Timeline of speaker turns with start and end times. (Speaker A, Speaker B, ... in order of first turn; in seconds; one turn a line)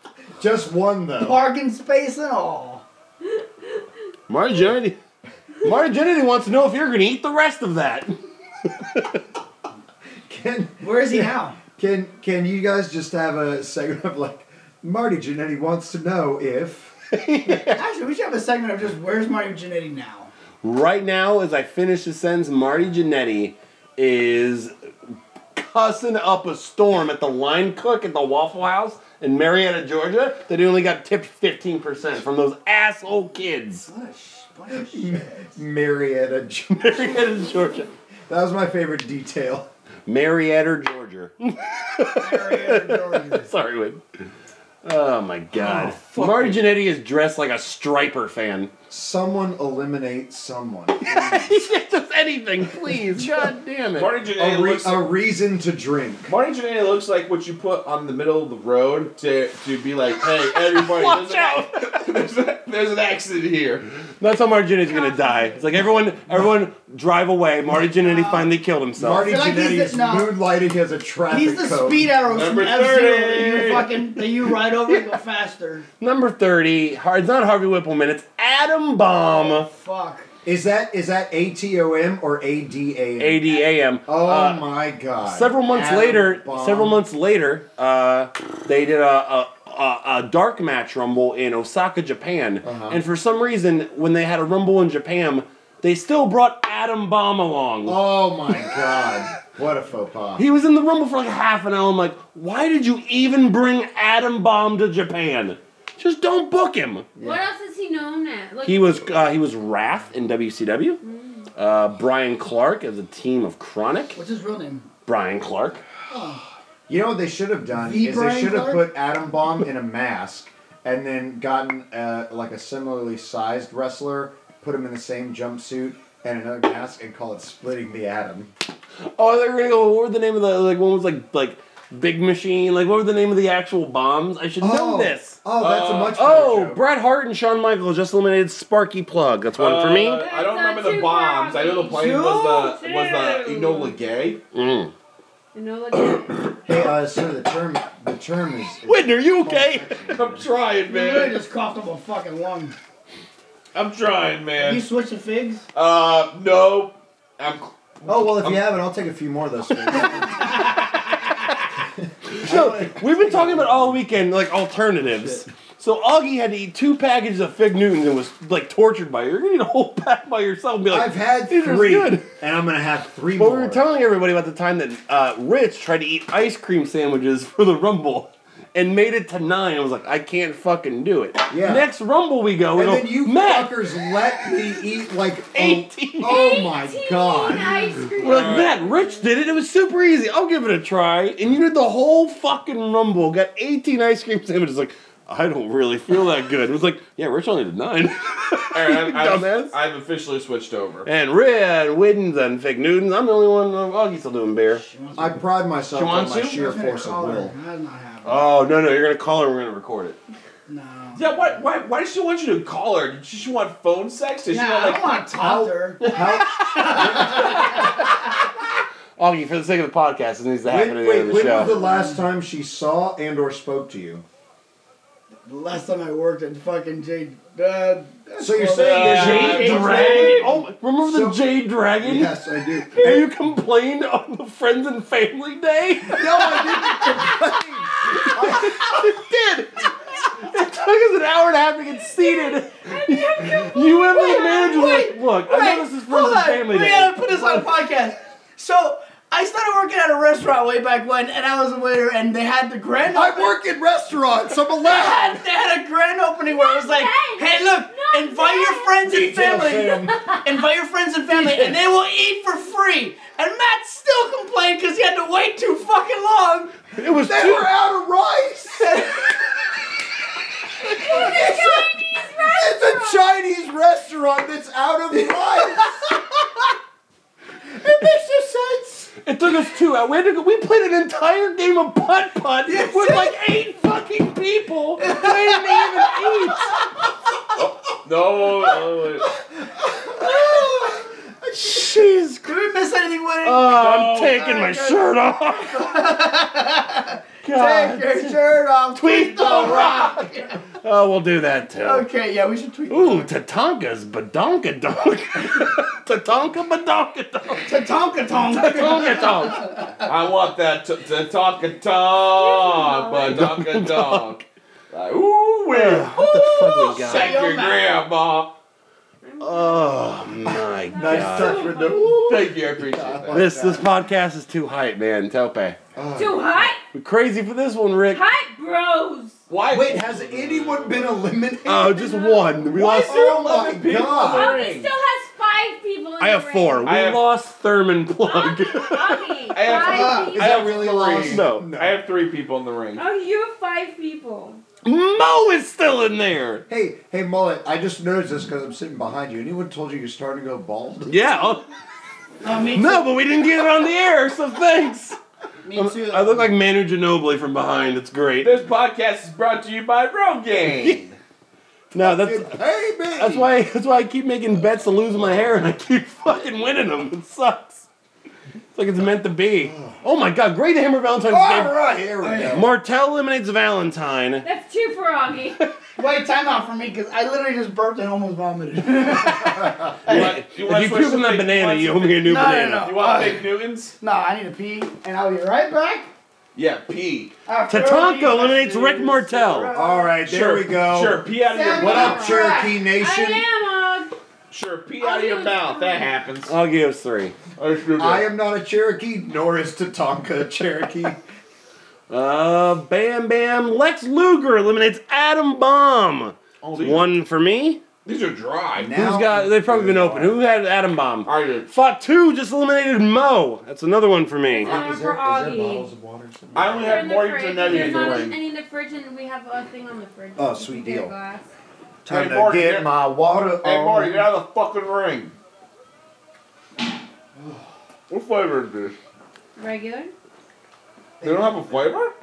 Speaker A: 0.4-1.4
Speaker B: 1.2-2.8
Speaker C: 4.3-5.0
Speaker C: 5.6-8.2
Speaker C: 8.7-9.2
Speaker A: 10.3-16.9
Speaker B: 10.8-11.6
Speaker C: 17.1-17.8
Speaker B: 17.6-20.3
Speaker C: 20.6-24.7
Speaker C: 25.5-33.9
Speaker B: 33.8-35.5
Speaker A: 34.7-37.4
Speaker C: 36.8-37.9
Speaker A: 38.3-39.7
Speaker C: 40.0-44.0
Speaker B: 42.2-43.5
Speaker C: 44.8-48.7
Speaker D: 46.1-46.5
Speaker A: 48.9-51.5
Speaker C: 51.0-54.1
Speaker D: 53.9-55.1
Speaker A: 54.4-56.3
Speaker D: 56.3-63.8
Speaker C: 60.5-62.1
Speaker C: 64.2-69.3
Speaker B: 68.0-68.5
Speaker A: 69.0-72.1
Speaker B: 69.2-70.3
Speaker B: 71.3-75.9
Speaker D: 72.3-73.9
Speaker C: 74.8-75.1
Speaker C: 76.0-79.7
Speaker B: 79.1-80.3
Speaker A: 80.4-87.0
Speaker C: 83.2-84.6
Speaker C: 85.2-98.0
Speaker A: 92.6-93.0
Speaker A: 97.8-100.5
Speaker C: 100.4-107.1
Speaker A: 107.2-107.4
Speaker E: 107.2-109.2
Speaker C: 108.6-111.0
Speaker E: 111.0-111.5
Speaker C: 111.5-114.2
Speaker B: 114.1-114.9
Speaker C: 115.0-115.8
Speaker B: 116.1-116.4
Speaker A: 116.9-128.5
Speaker B: 117.7-118.9
Speaker C: 129.2-135.4
Speaker A: 134.6-136.8
Speaker D: 135.6-136.2
Speaker C: 136.1-140.2
Speaker D: 139.5-144.4
Speaker E: 140.2-144.0
Speaker B: 141.9-142.7
Speaker C: 144.5-144.9
Speaker E: 145.5-146.5
Speaker A: 146.6-150.4
Speaker C: 148.8-150.1
Speaker D: 150.1-151.4
Speaker B: 150.9-152.7
Speaker D: 153.7-154.8
Speaker B: 154.6-155.6
Speaker D: 155.7-158.7
Speaker A: 158.0-160.6
Speaker D: 160.5-160.8
Speaker A: 162.0-164.0
Speaker C: 162.3-172.3
Speaker A: 170.9-173.8
Speaker C: 173.3-184.2
Speaker A: 181.5-181.9
Speaker A: 182.7-187.8
Speaker C: 185.5-186.6
Speaker E: 186.2-189.1
Speaker C: 188.2-199.7
Speaker D: 188.2-188.7
Speaker D: 198.7-201.1
Speaker C: 201.0-204.8
Speaker B: 204.7-205.4
Speaker A: 205.2-207.5
Speaker C: 205.9-206.7
Speaker B: 206.5-208.6
Speaker C: 208.2-210.2
Speaker B: 210.7-211.6
Speaker D: 211.1-215.2
Speaker B: 214.5-218.0
Speaker A: 215.4-217.6
Speaker C: 216.0-218.3
Speaker C: 219.2-221.7
Speaker A: 220.6-224.2
Speaker B: 221.3-222.2
Speaker B: 225.4-230.6
Speaker A: 228.4-230.1
Speaker D: 228.8-230.5
Speaker C: 228.9-232.3
Speaker A: 231.0-231.4
Speaker A: 232.0-233.3
Speaker C: 232.9-247.7
Speaker A: 236.1-239.0
Speaker E: 242.2-244.9
Speaker B: 244.1-253.6
Speaker A: 253.1-255.4
Speaker B: 254.8-266.9
Speaker E: 256.5-259.0
Speaker A: 259.0-260.2
Speaker E: 260.1-260.5
Speaker C: 261.4-261.7
Speaker C: 266.9-267.7
Speaker A: 267.2-269.1
Speaker B: 268.8-269.4
Speaker A: 270.9-276.1
Speaker E: 271.0-273.2
Speaker B: 271.0-271.6
Speaker B: 275.7-276.0
Speaker B: 277.8-279.1
Speaker C: 279.2-286.7
Speaker B: 282.6-283.4
Speaker B: 285.0-286.5
Speaker D: 287.6-289.3
Speaker A: 289.7-291.8
Speaker B: 290.1-291.0
Speaker C: 291.5-292.5
Speaker B: 292.4-300.6
Speaker C: 293.4-296.1
Speaker D: 293.8-294.2
Speaker C: 297.4-298.4
Speaker C: 298.9-302.1
Speaker B: 301.7-303.3
Speaker C: 302.9-307.8
Speaker B: 307.6-310.0
Speaker C: 308.4-309.8
Speaker D: 310.0-318.5
Speaker E: 312.2-313.5
Speaker C: 313.3-314.4
Speaker C: 315.7-317.5
Speaker B: 316.3-318.1
Speaker E: 319.2-322.2
Speaker C: 319.4-321.9
Speaker A: 320.9-323.9
Speaker D: 322.2-323.5
Speaker C: 323.3-325.8
Speaker A: 325.9-326.7
Speaker E: 326.1-326.8
Speaker C: 326.9-328.2
Speaker E: 328.1-329.4
Speaker D: 329.5-331.3
Speaker A: 329.7-332.2
Speaker C: 331.6-333.5
Speaker E: 331.9-332.8
Speaker D: 332.7-334.9
Speaker A: 333.0-334.6
Speaker E: 334.1-336.9
Speaker C: 336.2-339.4
Speaker D: 336.8-337.2
Speaker E: 338.2-340.9
Speaker D: 339.5-343.0
Speaker A: 339.7-342.0
Speaker C: 341.1-341.7
Speaker E: 342.9-344.6
Speaker C: 344.8-346.6
Speaker A: 346.7-351.1
Speaker C: 351.1-351.6
Speaker B: 352.4-353.2
Speaker C: 352.7-355.2
Speaker B: 355.6-356.5
Speaker C: 355.7-358.6
Speaker D: 358.4-361.1
Speaker C: 361.9-362.6
Speaker A: 361.9-363.5
Speaker C: 363.1-367.9
Speaker C: 368.7-371.8
Speaker A: 369.6-370.0
Speaker A: 371.3-372.7
Speaker B: 372.2-372.6
Speaker C: 372.5-374.4
Speaker E: 374.4-375.6
Speaker B: 376.0-380.3
Speaker C: 380.1-382.9
Speaker D: 380.1-383.9
Speaker B: 382.2-386.1
Speaker D: 386.5-387.3
Speaker B: 387.4-390.1
Speaker C: 387.7-389.7
Speaker A: 389.7-393.4
Speaker D: 390.2-392.5
Speaker B: 391.5-392.7
Speaker E: 391.8-394.1
Speaker D: 394.5-396.5
Speaker E: 395.0-396.1
Speaker C: 396.5-397.4
Speaker D: 397.6-398.3
Speaker A: 398.0-401.2
Speaker C: 402.1-407.8
Speaker D: 406.6-407.1
Speaker D: 408.0-409.0
Speaker A: 408.8-410.4
Speaker C: 408.9-414.8
Speaker D: 411.2-411.7
Speaker E: 414.5-415.9
Speaker A: 414.6-418.2
Speaker D: 416.5-418.3
Speaker E: 416.8-421.4
Speaker A: 420.4-421.1
Speaker A: 422.0-424.3
Speaker D: 422.1-425.3
Speaker A: 427.4-427.6
Speaker D: 428.1-428.9
Speaker E: 429.6-430.1
Speaker D: 431.2-432.1